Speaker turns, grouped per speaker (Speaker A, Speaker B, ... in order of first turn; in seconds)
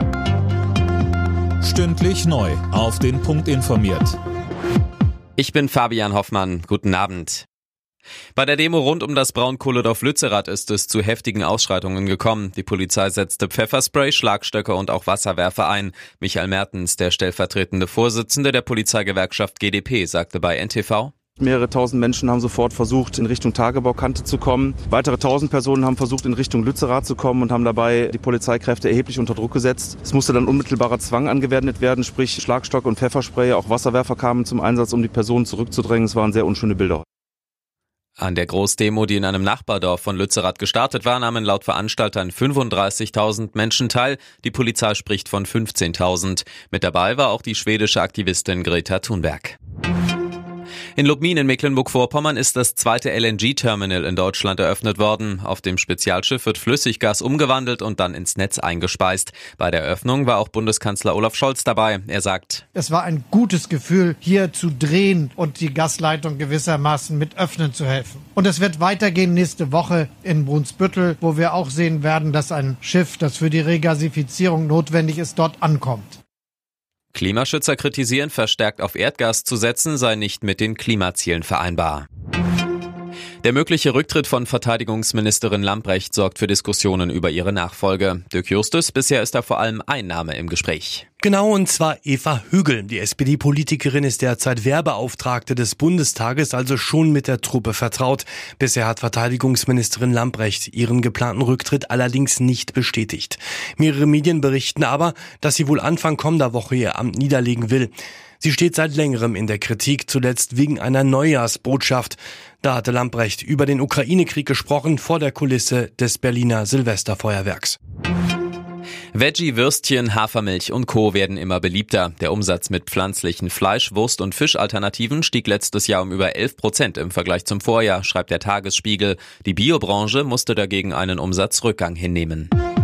Speaker A: 1.6-4.2
Speaker B: 5.4-7.5, 8.3-21.1, 38.2-49.6, 51.0-62.6, 77.1-82.1, 83.4-91.0, 119.1-132.5
Speaker C: 21.4-37.0
Speaker D: 62.8-76.2
Speaker E: 91.2-117.8